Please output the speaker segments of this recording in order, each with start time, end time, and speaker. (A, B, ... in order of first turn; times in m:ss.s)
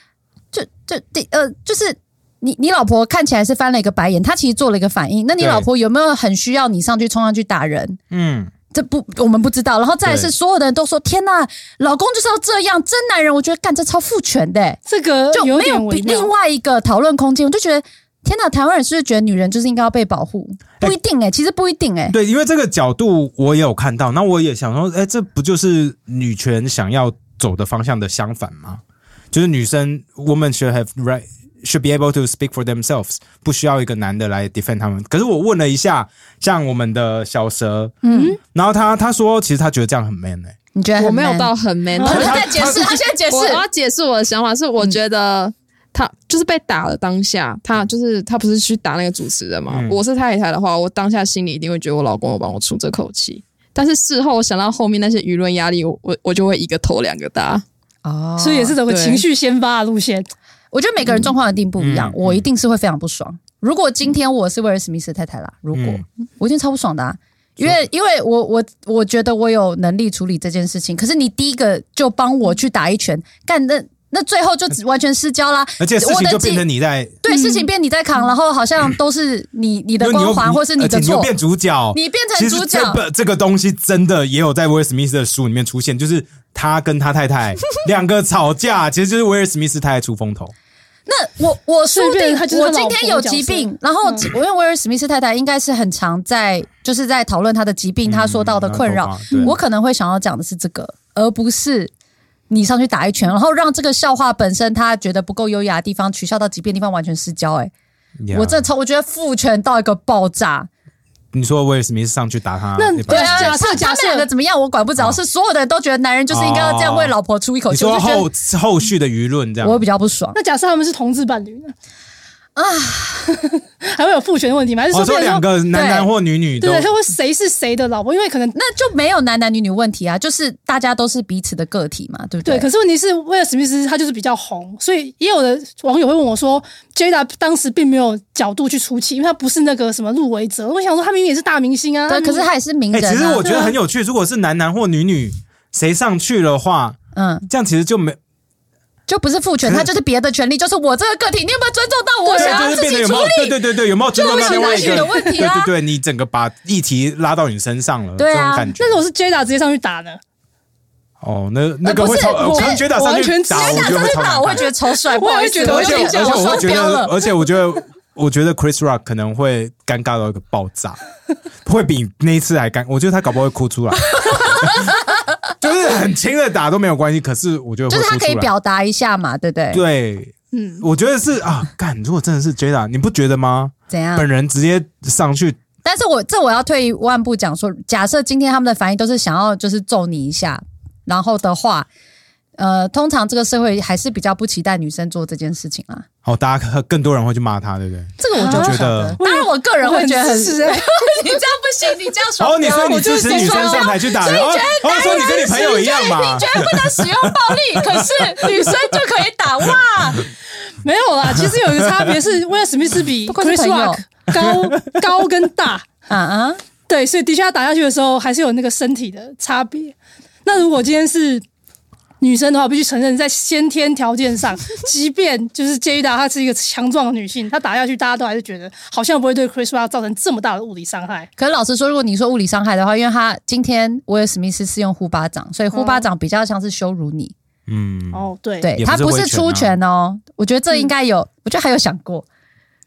0:00.5-0:08.0 A
0:05.4-0:05.7 B
0:08.1-0:08.5 B
0:08.7-0:14.8 A
0:10.0-0:10.3 B
0:14.9-0:16.3 C
0:15.3-0:22.2 A
0:22.1-0:28.8 B
0:29.3-0:38.0 B
0:38.0-0:38.4 A
0:38.1-0:38.4 C
0:38.5-0:40.6 B
0:40.8-0:43.6 A
0:41.0-0:57.6 D
0:42.0-0:42.4 C
0:42.1-0:43.0 B
0:49.7-0:50.0 B
0:58.0-0:58.8 A
0:58.4-1:00.3 C
0:58.9-0:59.2 D
1:00.7-1:16.6 A
1:01.8-1:02.4 B
1:05.7-1:06.0 B
1:15.8-1:17.2 B
1:17.2-1:21.3 A
1:17.3-1:17.7 C
1:20.0-1:30.5 B
1:21.9-1:23.0 A
1:31.1-1:41.9 A
1:31.9-1:34.3 C
1:38.0-1:39.5 B
1:42.5-1:47.7 A
1:48.2-1:48.7 B
1:48.3-1:50.7 A
1:51.3-1:53.6 B
1:52.8-1:54.3 C
1:53.1-1:58.3 A
1:56.3-1:57.1 B
1:57.7-1:59.8 B
1:59.6-2:00.4 A
2:00.4-2:01.7 C
2:02.6-2:03.4 A
2:03.3-2:05.5 C
2:04.9-2:06.9 B
2:05.7-2:06.1 A
2:06.6-2:08.6 C
2:08.6-2:12.7 A
2:12.4-2:22.5 C
2:22.1-2:23.5 A
2:22.9-2:28.2 B
2:23.4-2:23.7 C
2:27.1-2:27.5 A
2:29.1-2:33.6 A
2:32.2-2:32.7 C
2:32.4-2:39.0 B
2:34.1-2:35.7 A
2:34.2-2:35.4 C
2:38.2-2:38.7 A
2:38.8-2:40.2 C
2:41.2-2:44.7 B
2:41.8-2:42.8 A
2:42.0-2:44.3 C
2:43.5-2:47.1 A
2:45.0-2:46.8 C
2:45.6-2:51.0 B
2:51.6-2:55.0 B
2:54.3-2:54.8 A
2:55.6-2:58.5 B
2:57.9-2:59.8 A
2:59.7-3:05.6 B
3:00.5-3:00.8 C
3:03.9-3:04.3 A
3:05.8-3:11.9 A
3:12.6-3:16.1 A
3:16.2-3:19.2 B
3:18.2-3:30.2 A
3:18.3-3:21.4 C
3:22.4-3:28.6 B
3:22.7-3:24.0 C
3:30.8-3:35.9 C
3:33.3-3:34.0 A
3:34.3-3:35.0 B
3:36.1-3:36.6 A
3:36.9-3:41.4 C
3:42.2-3:51.3 C
3:51.4-3:57.3 A
3:55.7-3:56.1 C
3:57.7-3:58.2 B
3:58.1-3:58.7 C
3:58.6-4:02.3 A
3:58.8-3:59.7 B